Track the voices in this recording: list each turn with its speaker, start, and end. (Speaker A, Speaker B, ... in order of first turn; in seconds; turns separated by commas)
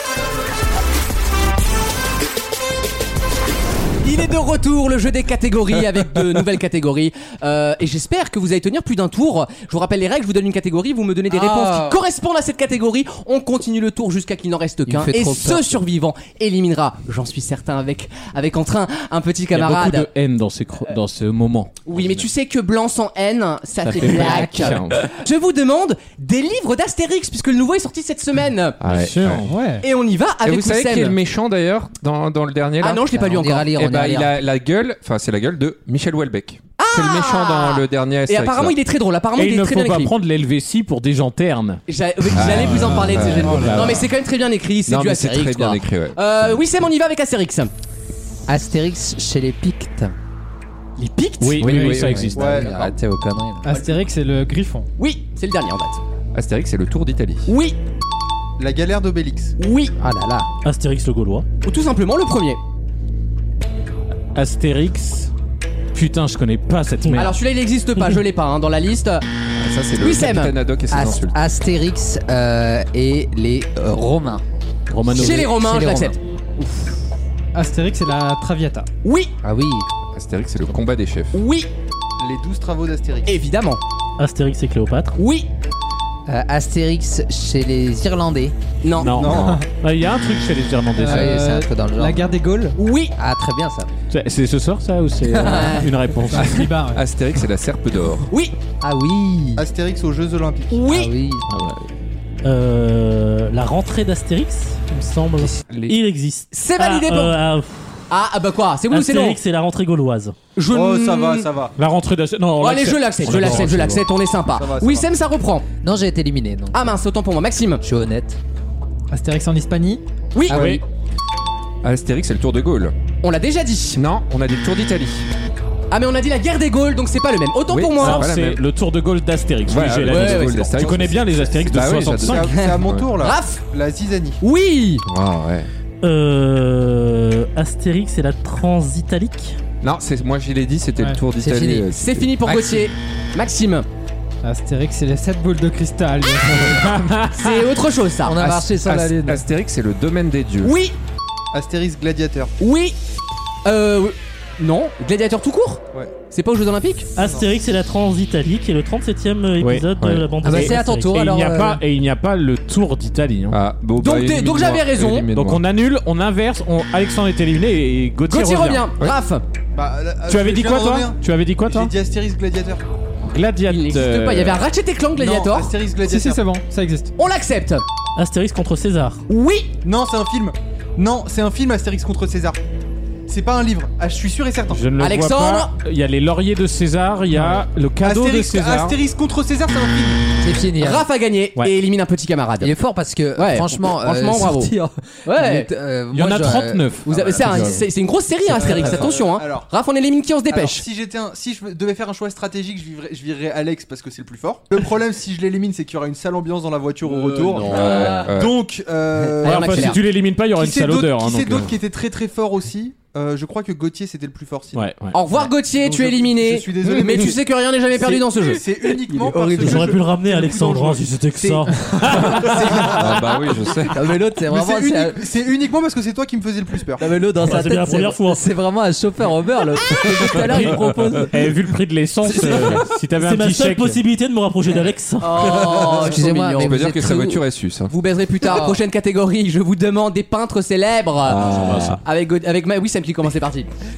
Speaker A: 4.0-20.1, Speaker B: 11.3-12.0, Speaker B: 14.9-15.7, Speaker C: 19.5-21.8, Speaker A: 21.9-28.8, Speaker D: 21.9-22.2, Speaker B: 23.9-24.9, Speaker C: 23.9-25.1, Speaker D: 28.8-29.5, Speaker C: 28.8-29.5, Speaker E: 29.5-29.9, Speaker A: 29.8-31.1, Speaker D: 30.4-33.1, Speaker A: 32.8-33.7, Speaker B: 33.1-34.4, Speaker D: 33.7-38.8, Speaker A: 36.8-40.1, Speaker C: 39.4-41.8, Speaker A: 41.9-47.7, Speaker D: 42.4-44.1, Speaker E: 42.9-43.6, Speaker C: 43.5-44.1, Speaker D: 44.9-46.6, Speaker B: 48.5-50.1, Speaker A: 51.0-51.7, Speaker C: 51.4-52.9, Speaker D: 51.6-52.3, Speaker B: 51.8-53.7, Speaker F: 52.3-52.8, Speaker E: 53.6-54.9, Speaker A: 55.0-56.0, Speaker D: 56.3-57.5, Speaker A: 57.5-57.8, Speaker F: 58.6-59.5, Speaker A: 59.6-59.9, Speaker B: 60.0-60.5, Speaker G: 60.6-61.5, Speaker A: 61.6-62.6, Speaker C: 64.3-65.3, Speaker C: 65.9-67.3, Speaker A: 67.2-69.2, Speaker D: 69.6-71.4, Speaker A: 70.0-70.5, Speaker B: 70.9-74.4, Speaker C: 74.9-75.5, Speaker B: 75.1-76.2, Speaker A: 75.1-76.7, Speaker E: 77.5-78.9, Speaker A: 79.0-79.3, Speaker B: 79.4-79.9, Speaker D: 80.1-81.4, Speaker A: 81.3-81.7, Speaker F: 82.2-83.3, Speaker A: 83.3-83.8, Speaker G: 84.2-85.2, Speaker A: 85.2-85.5, Speaker B: 86.3-88.6, Speaker A: 88.8-89.2, Speaker C: 89.0-91.5, Speaker F: 89.1-89.6, Speaker D: 89.2-89.6, Speaker E: 89.3-89.6, Speaker E: 91.0-92.8, Speaker B: 91.1-92.3, Speaker A: 92.8-93.1, Speaker B: 93.2-93.9, Speaker C: 94.1-96.7, Speaker B: 95.2-95.8, Speaker A: 95.4-95.9, Speaker E: 96.3-97.0, Speaker D: 96.4-98.3, Speaker B: 98.8-99.7, Speaker F: 99.6-100.8, Speaker A: 100.7-101.1, Speaker B: 100.9-101.5, Speaker C: 101.5-101.9, Speaker G: 102.4-108.0, Speaker D: 105.7-106.0, Speaker A: 106.5-107.4, Speaker A: 108.1-109.4, Speaker G: 108.9-110.3, Speaker A: 110.6-111.5, Speaker F: 110.7-111.7, Speaker C: 111.8-114.0, Speaker A: 112.6-115.7, Speaker D: 113.2-114.0, Speaker F: 114.5-115.1, Speaker B: 115.8-117.0, Speaker A: 116.7-117.8, Speaker B: 117.8-118.4, Speaker E: 119.1-120.0, Speaker C: 120.5-120.8, Speaker B: 120.5-120.8, Speaker D: 121.8-122.9, Speaker A: 123.2-124.0, Speaker D: 124.0-125.3, Speaker A: 125.9-128.3, Speaker D: 127.7-128.6, Speaker C: 128.0-132.5, Speaker D: 129.7-133.1, Speaker A: 130.1-130.8, Speaker F: 130.8-134.4, Speaker A: 132.5-133.6, Speaker A: 134.4-135.0, Speaker D: 135.1-135.7, Speaker G: 136.0-139.6, Speaker D: 139.8-142.7, Speaker B: 141.4-141.9, Speaker A: 141.9-143.9, Speaker E: 144.4-147.0, Speaker C: 146.7-147.6, Speaker A: 147.3-148.4, Speaker B: 148.2-149.4, Speaker D: 148.4-150.8, Speaker A: 150.6-151.0, Speaker F: 151.5-152.5, Speaker A: 152.6-153.0, Speaker A: 153.7-157.1, Speaker G: 157.2-161.1, Speaker F: 157.2-157.5, Speaker C: 159.6-163.6, Speaker B: 160.4-161.8, Speaker D: 163.5-165.6, Speaker A: 164.0-165.3, Speaker C: 165.3-168.9, Speaker A: 168.3-169.4, Speaker F: 169.7-172.8, Speaker C: 170.3-171.9, Speaker C: 173.3-174.7, Speaker A: 173.7-175.7, Speaker F: 175.2-176.4, Speaker E: 176.0-177.1, Speaker A: 177.2-177.9, Speaker G: 178.2-179.2, Speaker A: 179.3-179.7, Speaker F: 179.8-182.6, Speaker F: 183.3-184.8, Speaker C: 184.7-189.0, Speaker A: 185.0-185.7, Speaker E: 187.3-187.7, Speaker F: 188.0-190.3, Speaker B: 190.4-191.1, Speaker A: 190.8-192.7, Speaker B: 192.6-197.8, Speaker A: 193.4-194.7, Speaker A: 195.2-195.7, Speaker C: 196.1-197.8, Speaker A: 197.1-200.8, Speaker F: 198.5-199.7, Speaker F: 200.5-214.9, Speaker C: 207.3-208.1, Speaker A: 207.6-208.3, Speaker D: 207.7-208.6, Speaker A: 209.2-210.0, Speaker C: 209.4-211.7, Speaker C: 214.7-215.1, Speaker A: 215.1-218.6, Speaker F: 215.6-221.2, Speaker B: 219.1-219.9, Speaker G: 219.6-222.0, Speaker C: 221.8-222.7, Speaker F: 222.2-223.2, Speaker D: 222.6-224.0, Speaker B: 223.9-225.2, Speaker F: 224.4-227.0, Speaker B: 227.0-231.4, Speaker G: 227.4-228.4, Speaker C: 230.3-234.0, Speaker B: 232.4-232.7, Speaker G: 233.2-235.5, Speaker A: 235.2-236.8, Speaker B: 235.2-237.4, Speaker D: 236.6-237.9, Speaker A: 237.9-243.7, Speaker B: 238.4-238.8, Speaker D: 241.2-242.0, Speaker C: 241.5-242.0